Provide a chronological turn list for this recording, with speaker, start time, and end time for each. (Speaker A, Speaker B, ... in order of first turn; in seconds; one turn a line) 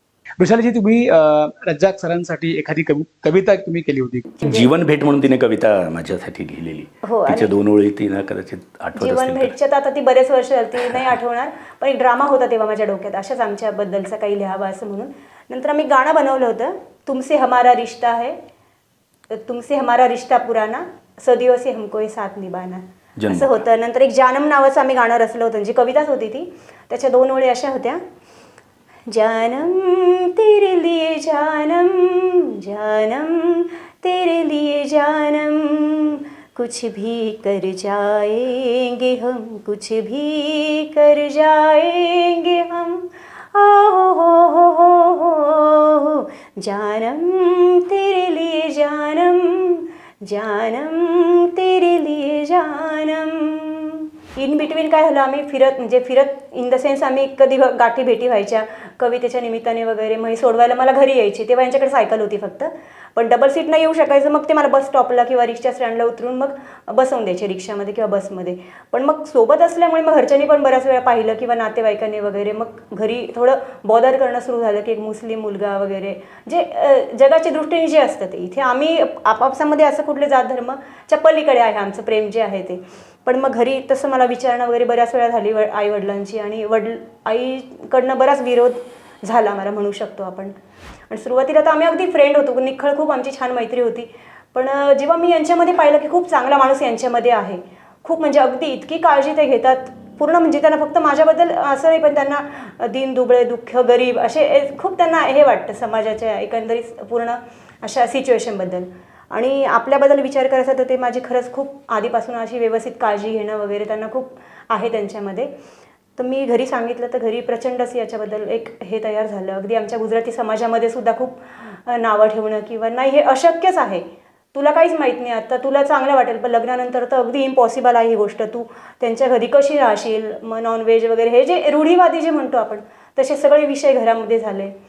Speaker A: 0.4-4.5
Speaker B: 4.4-4.7
Speaker C: 4.4-9.5
Speaker B: 7.0-7.6
Speaker B: 9.0-18.4
Speaker C: 10.8-11.1
Speaker B: 19.3-28.0
Speaker C: 23.2-23.6
Speaker B: 29.1-90.5
Speaker B: 91.1-115.5
Speaker B: 116.2-124.0
Speaker B: 124.5-134.7